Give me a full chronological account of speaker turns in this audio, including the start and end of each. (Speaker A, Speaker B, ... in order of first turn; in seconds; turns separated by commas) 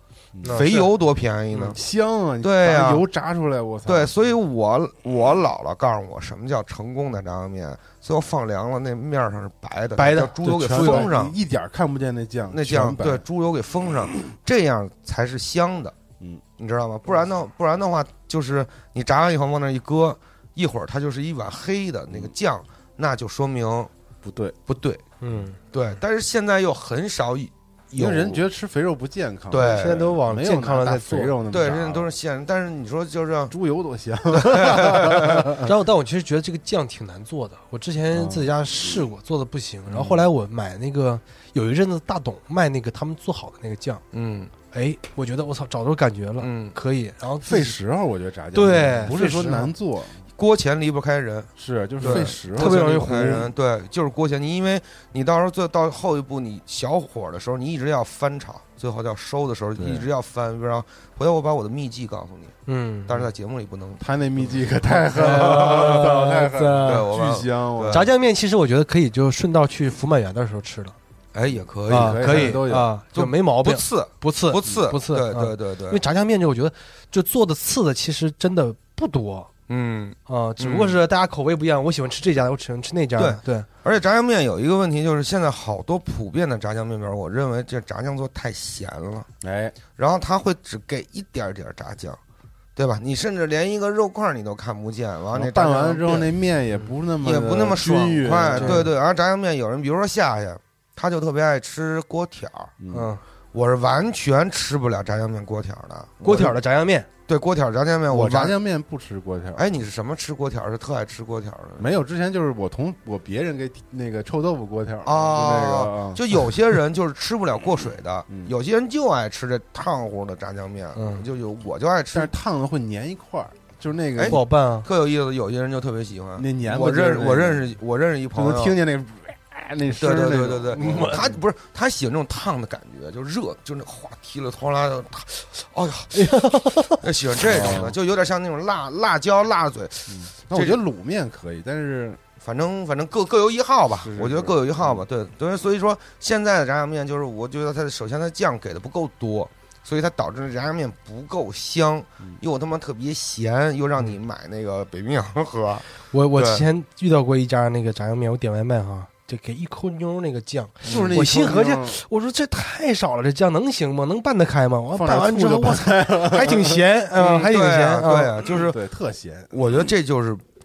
Speaker A: 0.4-0.7, Speaker B: 0.4-0.9, Speaker C: 0.5-1.8, Speaker A: 1.7-4.1, Speaker C: 2.4-3.0, Speaker C: 3.9-11.3, Speaker B: 10.0-11.1, Speaker A: 10.4-13.2, Speaker C: 12.5-16.0, Speaker C: 16.6-23.9, Speaker A: 24.2-24.6, Speaker C: 24.7-25.0, Speaker B: 25.2-25.6, Speaker C: 25.7-28.4, Speaker A: 28.0-32.1, Speaker C: 29.5-30.0, Speaker B: 29.7-31.4, Speaker C: 31.5-33.5, Speaker A: 33.5-35.7, Speaker C: 34.3-35.5, Speaker B: 35.6-44.0, Speaker A: 38.1-38.5, Speaker C: 39.9-40.2, Speaker C: 44.1-44.5, Speaker B: 44.7-47.8, Speaker C: 46.4-46.8, Speaker A: 47.4-50.2, Speaker B: 48.5-49.7, Speaker C: 50.4-62.6, Speaker A: 51.6-53.5, Speaker B: 52.0-53.5, Speaker A: 59.8-60.1, Speaker B: 62.7-63.1, Speaker C: 63.1-64.7, Speaker A: 64.0-68.1, Speaker B: 64.9-67.1, Speaker C: 65.3-66.1, Speaker C: 66.8-68.1, Speaker B: 67.9-71.0, Speaker C: 71.3-76.0, Speaker A: 71.9-72.9, Speaker B: 71.9-79.5, Speaker C: 79.7-81.0, Speaker B: 80.3-83.7, Speaker C: 83.2-89.3, Speaker A: 89.4-89.8, Speaker C: 90.0-92.2, Speaker C: 92.8-96.3, Speaker A: 95.3-98.9, Speaker C: 97.2-102.7, Speaker B: 98.5-98.9, Speaker A: 102.8-103.1, Speaker B: 102.9-103.2, Speaker C: 103.5-106.5, Speaker B: 106.2-107.1, Speaker C: 107.3-108.6, Speaker A: 108.1-109.7, Speaker C: 109.6-111.9, Speaker A: 111.8-116.3, Speaker C: 115.0-122.3, Speaker A: 118.3-118.5, Speaker B: 121.0-121.2, Speaker A: 122.1-124.4, Speaker C: 124.2-128.8, Speaker B: 124.3-124.9, Speaker A: 126.4-127.7, Speaker A: 128.3-131.4, Speaker C: 129.9-136.4, Speaker B: 130.7-131.2, Speaker B: 136.1-137.0, Speaker C: 137.0-140.8, Speaker A: 137.4-138.0, Speaker A: 140.1-142.2, Speaker C: 142.4-156.6, Speaker A: 144.0-145.1, Speaker B: 156.1-168.3, Speaker C: 160.8-161.2, Speaker A: 160.9-162.0, Speaker A: 164.9-166.8, Speaker C: 167.2-168.8, Speaker A: 168.5-169.5, Speaker C: 169.5-170.4